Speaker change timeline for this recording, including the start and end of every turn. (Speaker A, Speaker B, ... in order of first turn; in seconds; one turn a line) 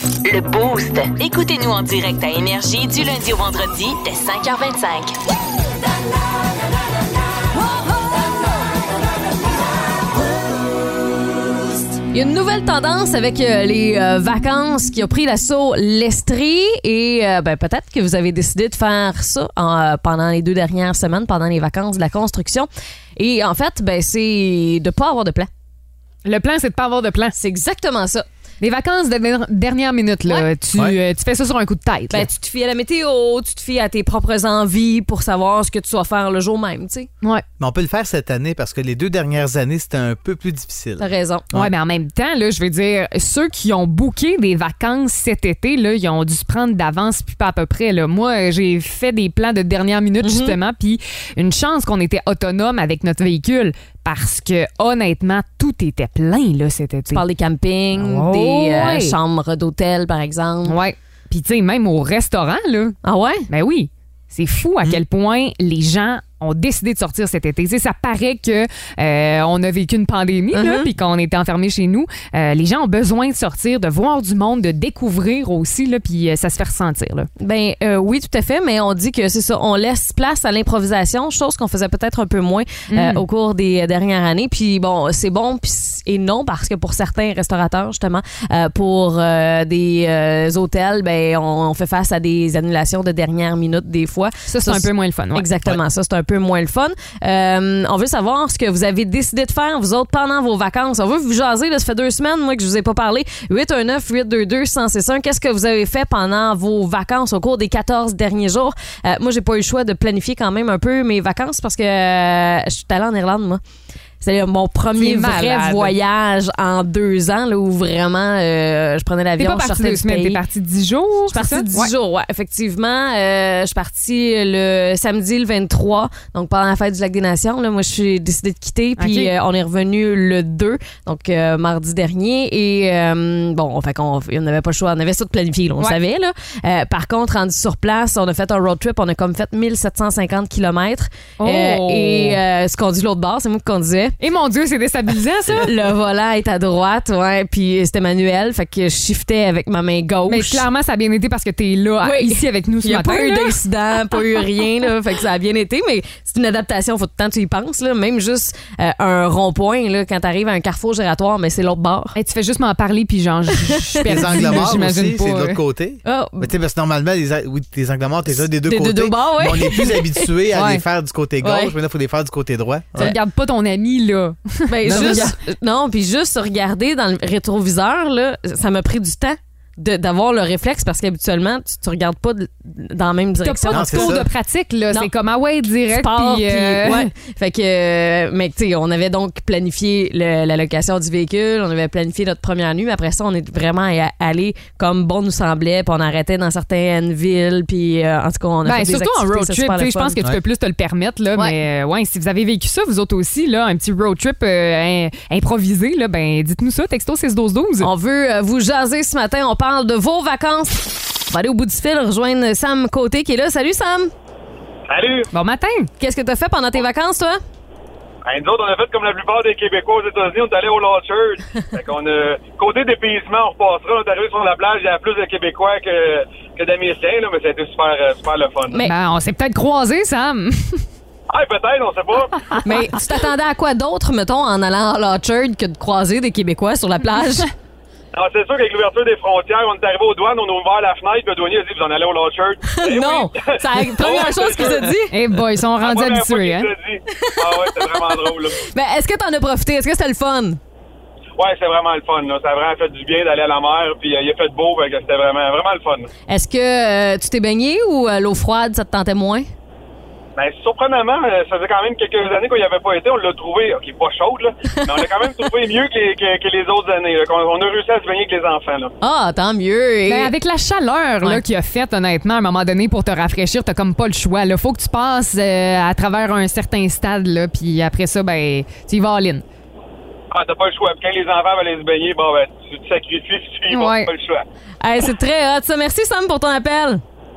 Speaker A: 0.2-5.1
Speaker B: 12.1-25.5
Speaker C: 26.2-27.3
Speaker B: 27.3-28.2
Speaker C: 28.6-32.3
Speaker B: 32.1-37.1
Speaker D: 37.6-41.7
Speaker B: 41.0-41.5
Speaker C: 41.5-57.2
Speaker B: 50.2-50.5
Speaker B: 57.1-60.8
Speaker C: 57.9-59.2
Speaker C: 60.6-63.0
Speaker B: 63.0-63.5
Speaker C: 63.5-77.3
Speaker B: 70.5-70.9
Speaker B: 77.4-113.6
Speaker C: 82.9-83.2
Speaker C: 94.5-95.5
Speaker B: 114.2-120.4
Speaker C: 114.9-115.9
Speaker C: 119.4-121.9
Speaker B: 121.3-144.2
Speaker C: 129.0-129.3
Speaker C: 141.4-142.4
Speaker C: 144.2-145.7
Speaker B: 145.5-150.6
Speaker C: 150.3-153.6
Speaker B: 152.0-162.1
Speaker C: 154.1-154.4
Speaker C: 162.1-165.6
Speaker B: 163.6-164.7
Speaker D: 164.1-173.2
Speaker B: 166.0-166.5
Speaker B: 168.6-170.3
Speaker C: 170.5-170.8
Speaker B: 171.4-171.7
Speaker C: 172.9-175.3
Speaker B: 174.7-184.2
Speaker D: 174.8-175.3
Speaker C: 183.4-187.1
Speaker D: 183.7-184.3
Speaker B: 185.9-200.1
Speaker C: 198.6-207.9
Speaker B: 207.8-214.1
Speaker E: 214.9-215.3
Speaker C: 215.3-215.9
Speaker B: 216.0-217.4
Speaker E: 218.2-228.8
Speaker C: 228.8-230.8
Speaker E: 231.3-232.3
Speaker B: 232.6-237.5
Speaker E: 238.1-244.9
Speaker B: 242.7-245.2
Speaker C: 245.1-246.7
Speaker E: 245.8-248.6
Speaker B: 247.1-250.6
Speaker E: 251.4-256.1
Speaker B: 256.3-259.5
Speaker E: 260.4-268.9
Speaker B: 269.0-270.3
Speaker C: 270.1-279.4
Speaker E: 280.3-284.4
Speaker C: 283.7-284.1
Speaker B: 284.8-287.0